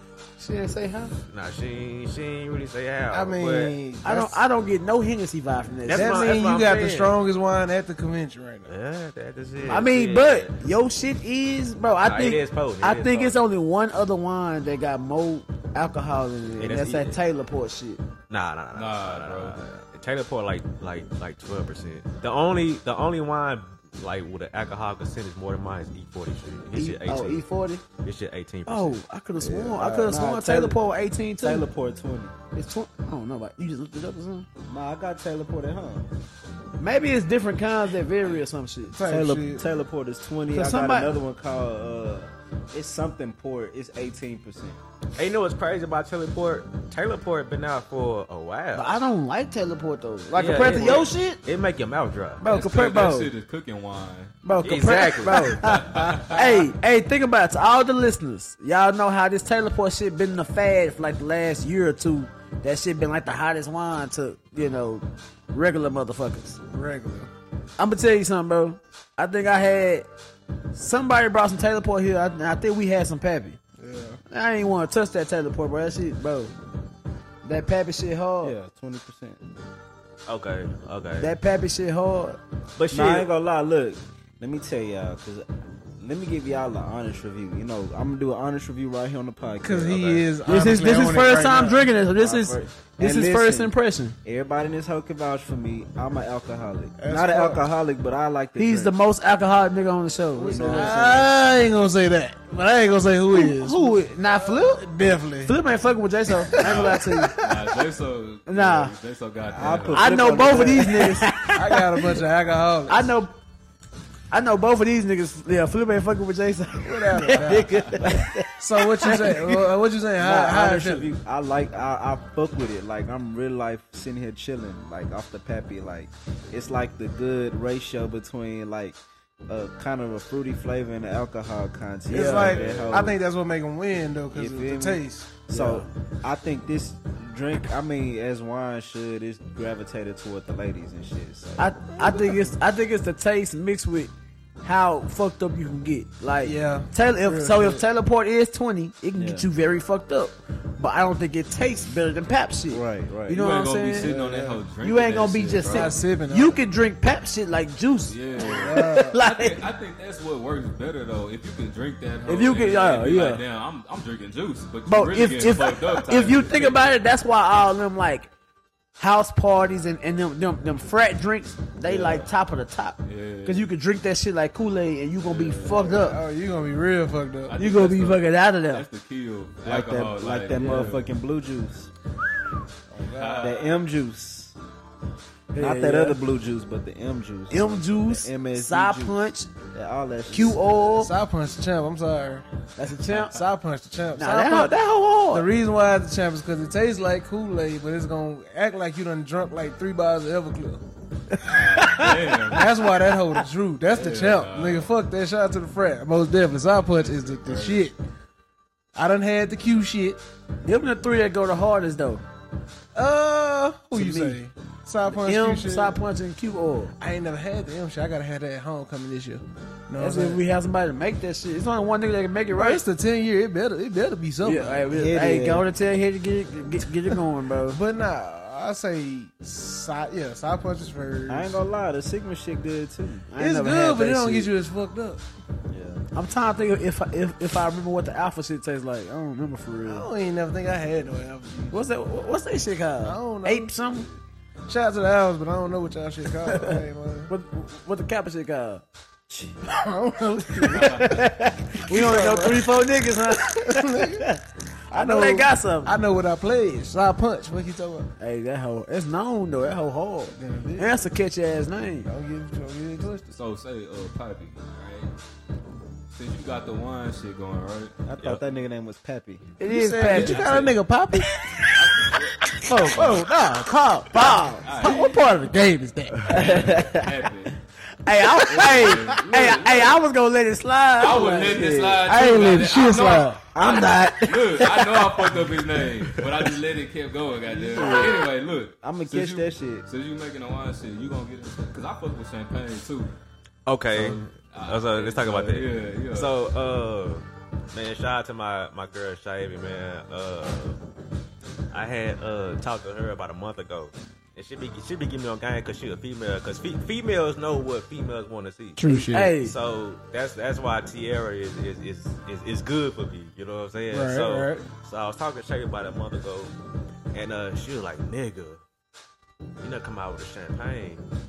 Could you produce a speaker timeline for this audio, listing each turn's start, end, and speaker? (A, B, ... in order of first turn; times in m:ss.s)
0:00.4-0:01.2 A
0:01.3-0:03.7 B
0:03.1-0:04.4 C
0:04.0-0:06.3 A
0:05.8-0:07.1 B
0:05.9-0:08.7 C
0:08.7-0:10.6 B
0:09.6-0:18.0 A
0:12.0-0:13.4 B
0:16.6-0:17.2 B
0:18.3-0:27.4 B
0:18.7-0:19.6 D
0:26.7-0:27.8 A
0:28.0-0:29.0 B
0:28.7-0:31.7 A
0:29.4-0:30.8 E
0:31.4-0:32.3 E
0:32.5-0:34.5 A
0:34.7-0:36.1 E
0:36.8-0:39.0 A
0:38.9-0:39.6 C
0:39.0-0:44.8 E
0:40.5-0:41.1 A
0:45.2-0:49.0 B
0:48.7-0:51.4 A
0:50.3-0:52.4 B
0:50.4-0:51.0 E
0:52.4-0:53.3 A
0:52.4-0:54.3 D
0:54.4-1:06.6 A
0:54.6-0:55.7 B
0:55.5-0:56.6 D
1:06.7-1:07.3 C
1:07.8-1:10.1 A
1:10.7-1:13.6 A
1:13.8-1:14.2 C
1:14.3-1:16.5 A
1:17.4-1:18.5 A
1:18.4-1:19.4 E
1:20.2-1:21.3 B
1:21.2-1:22.4 A
1:22.8-1:23.3 B
1:22.9-1:25.4 E
1:26.0-1:30.1 E
1:29.6-1:31.8 C
1:29.8-1:30.3 B
1:30.4-1:34.2 A
1:32.1-1:38.9 E
1:37.0-1:37.6 C
1:38.6-1:41.3 A
1:40.4-1:41.3 E
1:40.4-1:45.6 C
1:43.3-1:44.9 A
1:45.4-1:47.4 A
1:46.4-1:47.7 C
1:46.6-1:50.6 D
1:48.5-1:48.9 A
1:49.5-1:51.3 E
1:49.9-1:52.2 A
1:50.5-1:53.1 C
1:52.9-1:53.3 A
1:54.3-1:59.6 A
1:56.8-1:57.8 C
1:57.6-1:58.0 D
1:58.0-1:58.4 E
1:58.6-2:01.1 C
2:00.2-2:09.0 E
2:09.5-2:13.2 E
2:12.1-2:12.6 A
2:12.1-2:15.3 C
2:12.6-2:12.9 D
2:14.3-2:21.7 E
2:15.5-2:15.8 A
2:15.6-2:15.8 B
2:21.6-2:24.1 A
2:22.0-2:22.4 C
2:24.6-2:34.2 A
2:26.4-2:27.8 C
2:29.1-2:29.5 E
2:32.7-2:33.5 E
2:33.3-2:36.0 D
2:34.0-2:34.6 C
2:34.8-2:39.6 A
2:35.6-2:36.6 C
2:38.1-2:47.0 D
2:38.4-2:39.2 C
2:42.2-2:43.4 A
2:44.9-2:48.3 A
2:49.0-2:56.2 A
2:51.8-2:52.3 E
2:53.0-2:53.7 D
2:55.2-2:56.0 D
2:55.6-2:57.5 C
2:57.5-3:01.0 D
2:57.6-2:58.9 A
2:59.6-3:01.9 E
3:02.9-3:03.5 C
3:03.0-3:03.8 D
3:03.4-3:04.5 E
3:05.5-3:06.2 A
3:05.6-3:11.0 E
3:07.5-3:09.5 A
3:10.3-3:11.1 A
3:11.0-3:12.4 C
3:12.8-3:13.4 A
3:13.3-3:14.7 C
3:14.2-3:15.4 A
3:15.3-3:20.8 C
3:21.3-3:22.6 A
3:21.4-3:22.7 D
3:22.5-3:28.0 C
3:23.9-3:24.9 D
3:27.0-3:27.8 D
3:28.9-3:30.2 C
3:30.6-3:32.2 A
3:32.9-3:36.0 C
3:33.9-3:34.4 A
3:35.1-3:36.9 A
3:37.0-3:40.4 C
3:40.0-3:42.8 A
3:42.5-3:44.9 C
3:44.4-3:47.8 A
3:44.9-3:45.6 E
3:47.7-3:51.5 C
3:51.3-3:53.3 E
3:53.3-3:54.5 A
3:53.4-3:55.2 C
3:55.7-3:56.0 E
3:56.1-4:00.1 A
3:59.8-4:01.8 C
4:01.7-4:04.1 A
4:03.0-4:04.2 C
4:04.7-4:07.3 C
4:06.4-4:08.8 A
4:09.3-4:09.6 E
4:09.7-4:11.0 C
4:10.6-4:15.9 A
4:10.7-4:11.1 D
4:11.9-4:14.2 C
4:14.9-4:18.1 C
4:18.2-4:22.1 A
4:20.3-4:21.0 C
4:22.0-4:23.3 C
4:23.3-4:25.1 D
4:26.1-4:28.0 D
4:28.0-4:29.5 E
4:29.6-4:30.7 A
4:29.6-4:31.3 C
4:30.0-4:30.7 D
4:31.8-4:33.2 D
4:32.6-4:33.0 A
4:32.7-4:36.3 C
4:34.1-4:35.0 A
4:34.6-4:35.3 D
4:36.2-4:37.5 D
4:36.3-4:37.0 E
4:38.0-4:42.8 A
4:38.4-4:40.0 D
4:41.0-4:53.1 D
4:41.5-4:41.9 E
4:42.1-4:43.4 C
4:43.5-4:44.2 E
4:43.6-4:45.4 A
4:46.1-4:46.4 B
4:47.5-4:48.2 E
4:47.7-4:48.2 A
4:48.8-4:49.8 E
4:53.6-5:00.8 B
4:53.9-4:56.3 D
5:01.7-5:08.8 B
5:08.8-5:09.3 C
5:08.8-5:09.5 A
5:09.4-5:16.5 B
5:13.9-5:14.6 C
5:17.1-5:18.6 B
5:19.6-5:21.0 B